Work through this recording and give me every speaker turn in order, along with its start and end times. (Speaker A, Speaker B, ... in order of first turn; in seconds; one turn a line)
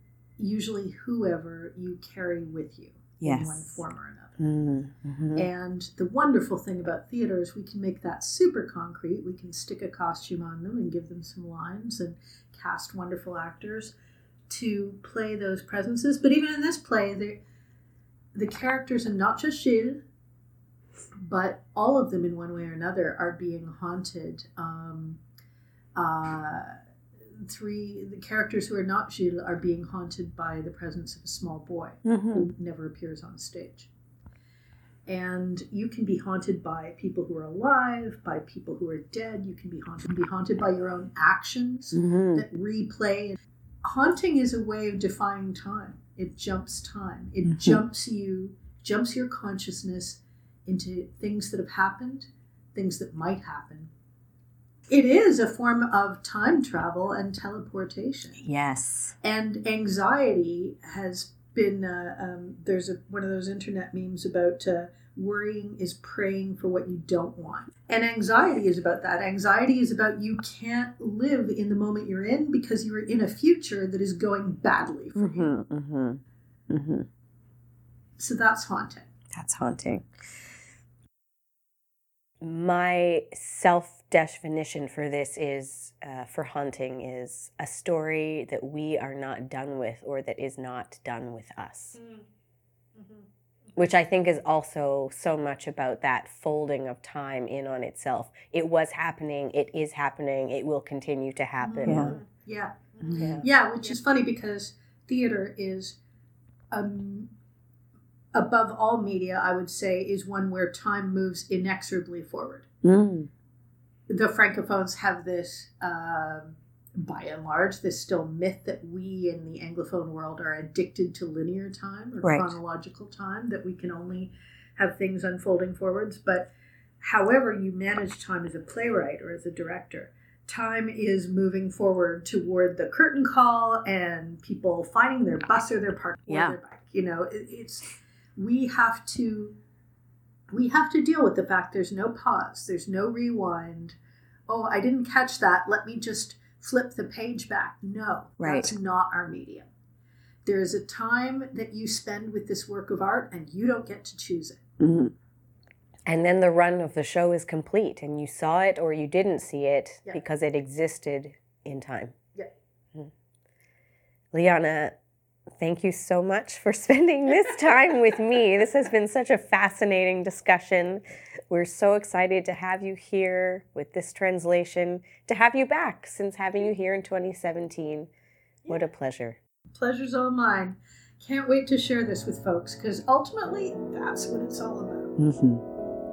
Speaker A: 0.4-4.4
Speaker B: 3.2-3.8
Speaker B: 4.4-5.5
Speaker A: 5.3-13.9
Speaker A: 14.5-17.4
Speaker A: 18.3-20.0
Speaker A: 21.2-25.2
Speaker A: 25.9-26.8
Speaker A: 27.3-33.9
Speaker B: 32.0-32.5
Speaker A: 35.0-53.9
Speaker B: 41.9-42.4
Speaker B: 47.4-47.8
Speaker A: 54.9-58.4
Speaker B: 58.4-59.1
Speaker A: 59.2-75.5
Speaker B: 75.1-77.1
Speaker A: 78.2-79.1
Speaker B: 79.3-80.1
Speaker B: 82.4-92.0
Speaker A: 93.0-93.2
Speaker B: 93.8-102.2
Speaker A: 101.6-106.0
Speaker B: 103.0-103.4
Speaker A: 106.7-107.3
Speaker A: 108.3-112.7
Speaker B: 112.8-113.3
Speaker A: 114.1-126.5
Speaker B: 122.2-122.5
Speaker A: 127.0-137.8
Speaker B: 136.3-136.5
Speaker A: 138.4-139.6
Speaker A: 140.5-144.0
Speaker A: 144.5-149.7
Speaker B: 148.4-148.7
Speaker A: 150.4-154.6
Speaker B: 154.8-155.1
Speaker B: 156.1-162.1
Speaker B: 164.3-165.0
Speaker B: 165.6-178.1
Speaker B: 178.7-179.4
Speaker A: 179.7-185.2
Speaker B: 185.2-185.6